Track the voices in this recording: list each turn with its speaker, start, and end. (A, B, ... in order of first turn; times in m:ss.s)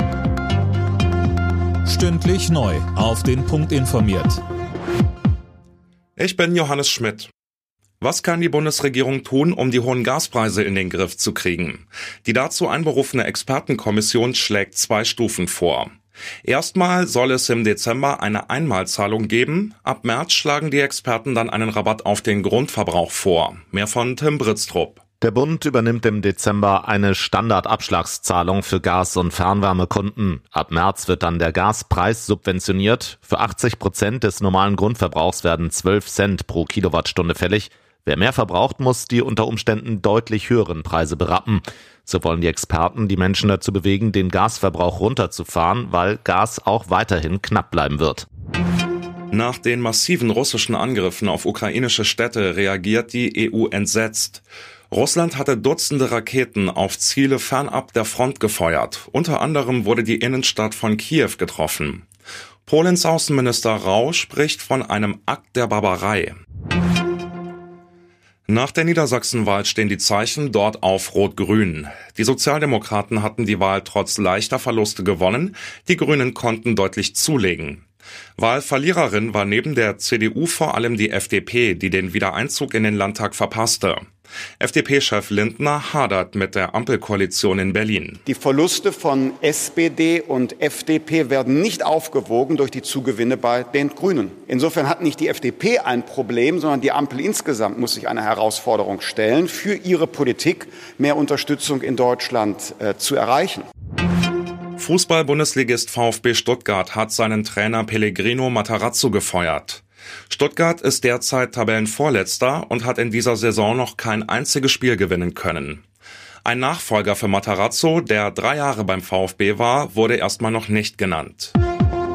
0:01.8-0:04.4 A
0:06.2-0:07.3 B
0:08.0-0:15.9 B
0:16.4-0:25.0 B
0:25.2-0:48.3 C
0:49.3-1:02.0 B
1:02.7-1:06.4 B
1:08.5-1:17.8 B
1:18.4-1:24.0 B
1:24.6-1:28.2 B
1:28.3-1:43.7 D
1:44.8-1:55.8 B
1:56.4-2:01.5 B